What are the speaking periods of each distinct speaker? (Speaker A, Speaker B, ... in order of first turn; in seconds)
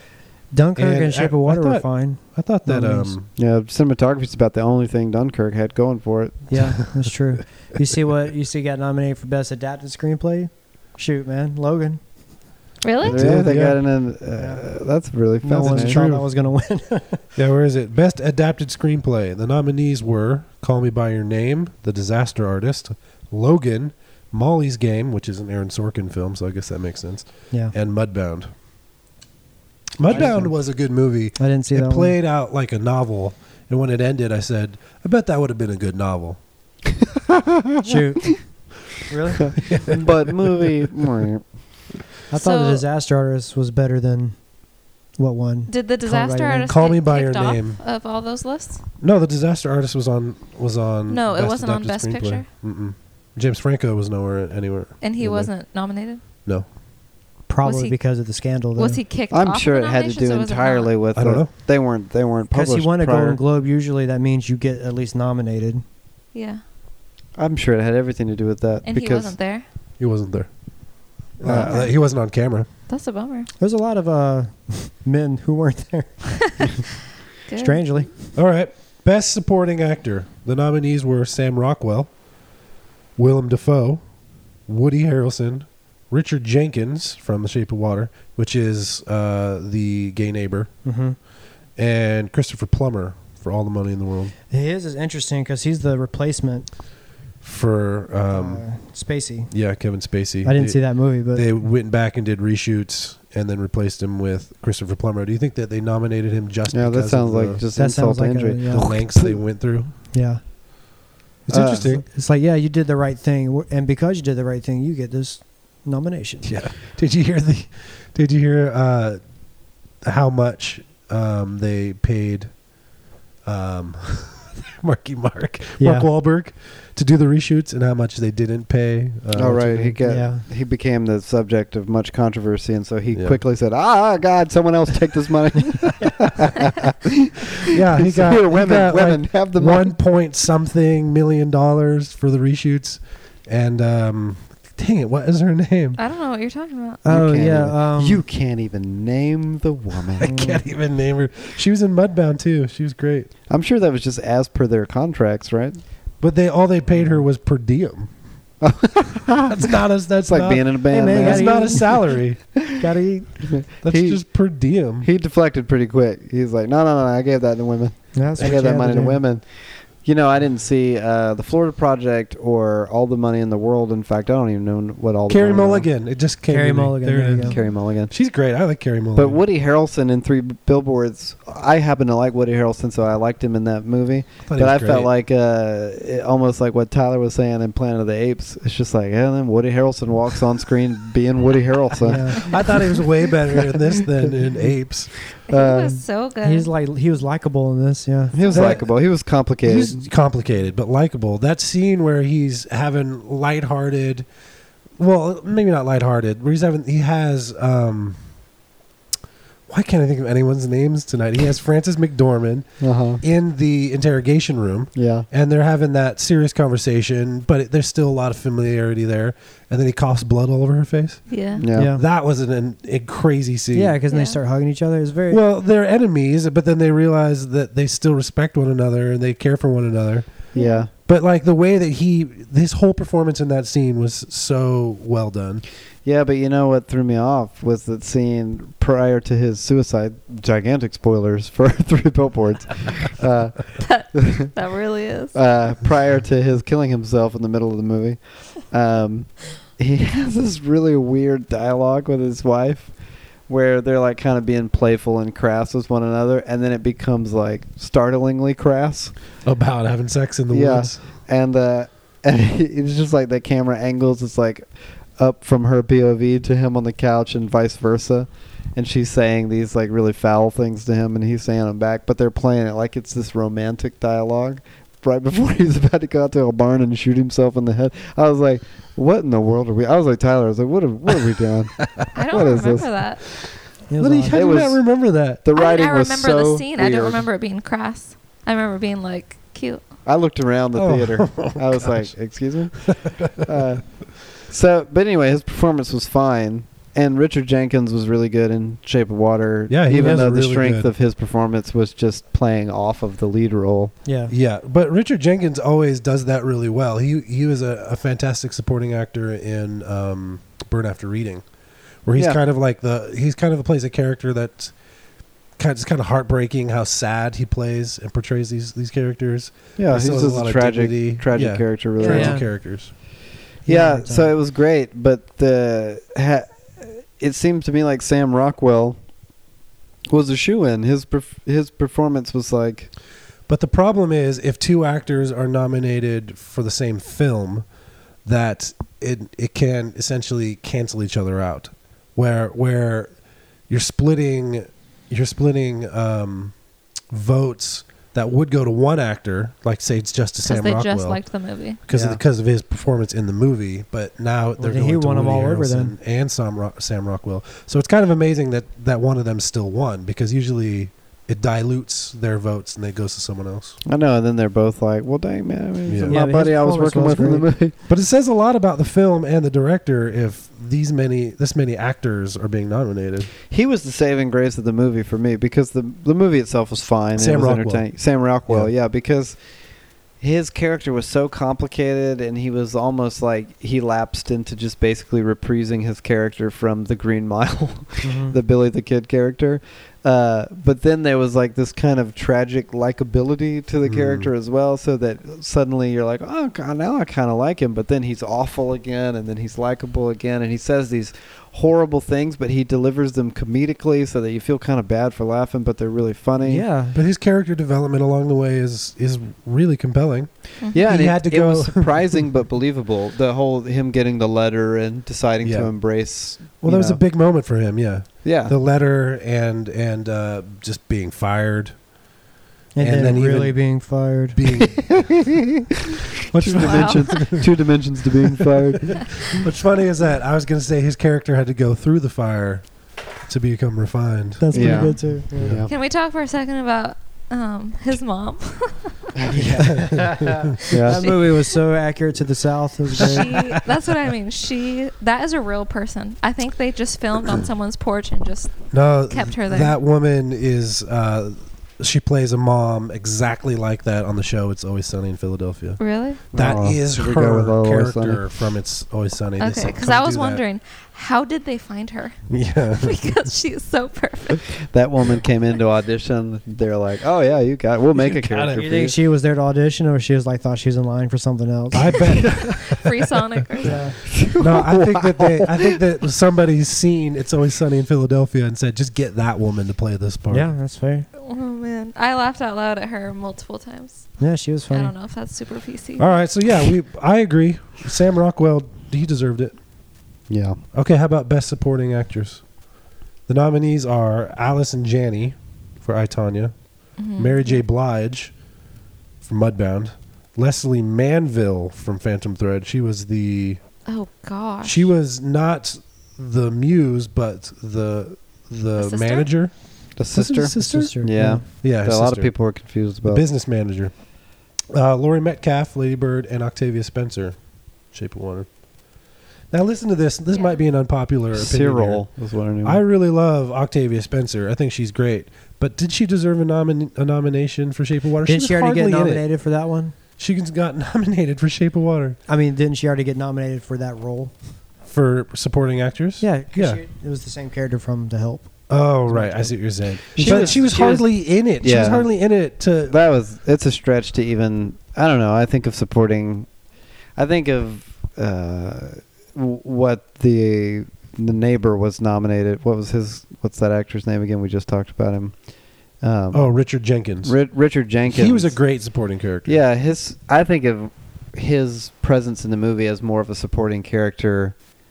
Speaker A: 0.5-3.1, 6.5-12.0, 14.4-14.6, 15.4-17.2, 30.1-30.8, 31.4-32.1, 37.8-39.6, 42.3-44.6, 45.1-46.7, 57.5-59.0, 62.5-65.8, 71.4-71.8, 73.6-76.7, 77.6-78.2, 90.8-91.2, 94.5-96.7, 98.3-99.5, 100.4-101.5, 107.7-109.0, 110.1-110.4, 111.5-116.5, 125.8-126.1, 130.0-130.4, 147.0-148.2, 150.2-150.6, 160.9-162.1, 162.7-163.4, 168.1-169.2, 176.5-177.6, 192.0-192.5, 196.4-198.3, 221.7-222.0, 223.7-225.4, 283.9-284.6, 304.1-304.3, 322.0-322.5, 323.7-324.3, 354.6-355.9, 366.1-367.5, 388.0-388.4, 406.4-407.0, 422.7-424.4, 434.4-435.5, 439.3-443.3, 468.5-472.3, 473.6-474.0, 480.3-481.1, 484.2-484.9, 510.4-511.4, 528.3-530.0, 532.3-534.3, 536.2-540.6
Speaker B: 0.8-3.3, 13.0-13.8, 15.6-16.3, 17.4-28.5, 30.0-36.4, 39.6-40.7, 46.7-47.8, 49.0-55.5, 61.1-61.5, 70.0-70.5, 71.3-72.7, 78.3-82.1, 83.2-84.0, 84.7-90.7, 91.8-94.3, 97.4-98.8, 99.5-107.6, 108.7-109.9, 111.5-112.1, 116.4-119.2, 120.0-122.6, 123.4-130.0, 133.1-133.4, 137.7-146.0, 150.2-153.3, 156.2-158.1, 159.4-162.4, 163.8-165.1, 175.3-179.4, 184.4-185.1, 192.3-195.1, 198.5-198.9, 199.6-204.2, 205.0-208.2, 209.7-224.0, 225.3-230.5, 231.1-235.6, 259.4-261.1, 284.0-285.4, 290.7-292.1, 292.8-293.3, 299.7-300.9, 304.3-311.4, 312.1-314.7, 315.6-322.9, 333.5-337.7, 338.2-343.1, 343.7-346.6, 347.1-351.2, 351.9-363.8, 365.9-366.2, 367.9-373.3, 377.1-378.7, 393.8-394.3, 406.9-412.2, 415.4-421.9, 422.8-425.2, 426.3-427.6, 428.9-435.7, 439.5-440.6, 443.0-443.6, 448.7-455.8, 456.3-460.4, 462.3-463.3, 467.9-468.7, 471.7-472.9, 473.6-480.5, 486.0-489.6, 490.7-492.5, 493.3-498.4, 499.2-503.6, 504.6-512.5, 513.0-514.0, 514.7-518.5, 519.5-522.0, 522.6-529.3, 530.2-532.2, 534.9-536.8, 538.7-543.0, 556.3-557.4, 558.0-559.6
Speaker C: 3.4-6.6, 13.0-16.0, 39.5-41.5, 59.3-63.4, 67.4-69.3, 71.4-71.7, 106.7-109.4, 111.5-111.9, 129.3-139.9, 147.1-150.4, 153.5-155.8, 158.6-159.6, 160.2-162.0, 163.4-164.2, 165.0-175.9, 177.5-178.1, 179.2-193.0, 193.6-194.1, 195.5-196.0, 198.3-200.1, 212.8-213.2, 214.9-215.3, 221.6-221.9, 230.5-230.9, 236.0-244.5, 245.3-252.9, 253.5-259.1, 260.5-282.9, 284.3-287.2, 290.1-303.9, 319.8-322.4, 323.6-329.0, 330.1-332.9, 363.8-367.8, 373.5-379.4, 380.2-406.6, 410.7-417.0, 418.2-418.5, 424.7-429.4, 434.5-435.7, 439.2-440.0, 440.7-441.1, 456.3-458.2, 464.7-468.9, 474.1-475.8, 490.3-490.6, 509.9-513.2, 521.3-522.8, 540.1-542.1, 542.9-546.5, 547.1-556.5, 557.2-558.7, 559.5-564.6
Speaker D: 12.8-13.3, 42.4-42.8, 45.7-48.8, 51.1-52.5, 55.0-56.2, 57.6-58.0, 58.7-60.9, 66.3-66.6, 68.8-69.6, 71.6-72.2, 72.9-73.5, 77.5-78.0, 146.0-147.0, 177.4-177.7, 195.5-196.7, 198.4-198.8, 221.3-221.6, 224.1-224.4, 230.5-230.8, 243.8-245.4, 282.1-283.2, 285.6-289.9, 350.4-351.8, 426.5-427.4, 435.7-439.1, 441.0-441.4, 442.9-449.7, 455.8-456.2, 459.4-462.2, 462.8-464.6, 472.3-473.9, 481.2-484.2, 484.7-486.1, 497.0-497.6, 503.9-504.9, 508.8-509.4, 520.3-520.6